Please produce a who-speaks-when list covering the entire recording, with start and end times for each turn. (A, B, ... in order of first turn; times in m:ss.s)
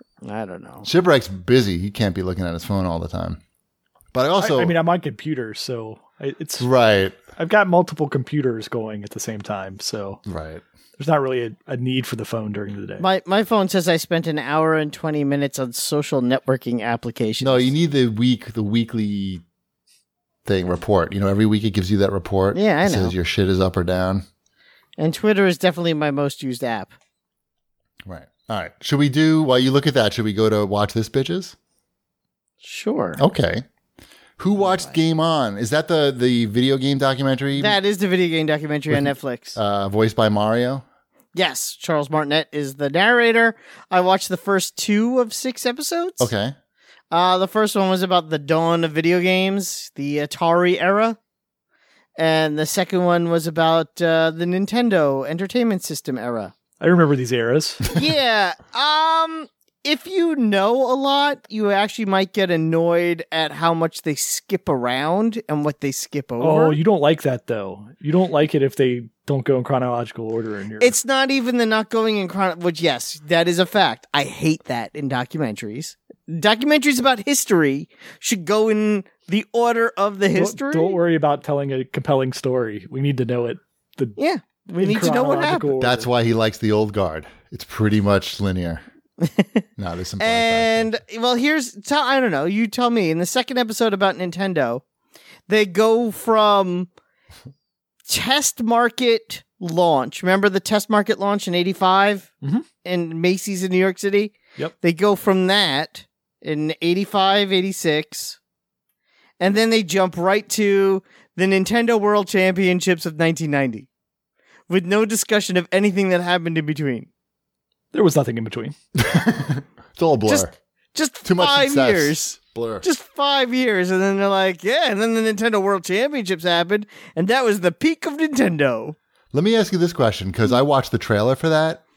0:00.2-0:00.9 A
0:00.8-0:03.4 B
0:04.1-0:04.7 B
0:04.4-0:06.7 C
0:06.6-0:07.2 B
0:07.4-0:10.2 C
0:10.2-0:10.6 B
0:11.0-0:13.0 C
0:13.0-0:17.7 A
0:17.4-0:19.4 B
0:20.5-0:24.2 B
0:22.5-0:23.2 A
0:25.0-0:26.9 A
0:28.0-0:31.6 B
0:32.6-0:33.2 A
0:33.2-0:33.6 B
0:34.4-0:37.8 B
0:34.6-0:34.9 A
0:37.6-0:39.6 A
0:38.9-0:40.8 B
0:41.3-0:46.3 A
0:46.2-0:46.6 B
0:47.1-0:51.2 A
0:52.2-0:56.5 A
0:56.8-0:57.9 C
0:57.9-1:06.8 A
1:06.4-1:10.9 C
1:10.8-1:21.0 A
1:20.4-1:24.2 C
1:24.2-1:25.7 A
1:24.8-1:26.1 C
1:25.8-1:28.8 B
1:29.2-1:29.6 A
1:29.8-1:30.9 B
1:30.2-1:34.8 A
1:35.5-1:36.9 A
1:38.1-1:42.3 A
1:42.8-1:48.4 A
1:49.4-1:53.9 A
1:54.7-1:57.1 A
1:57.9-1:58.8 C
1:59.0-2:00.5 B
2:00.3-2:09.0 A
2:01.2-2:02.8 B
2:09.3-2:11.8 B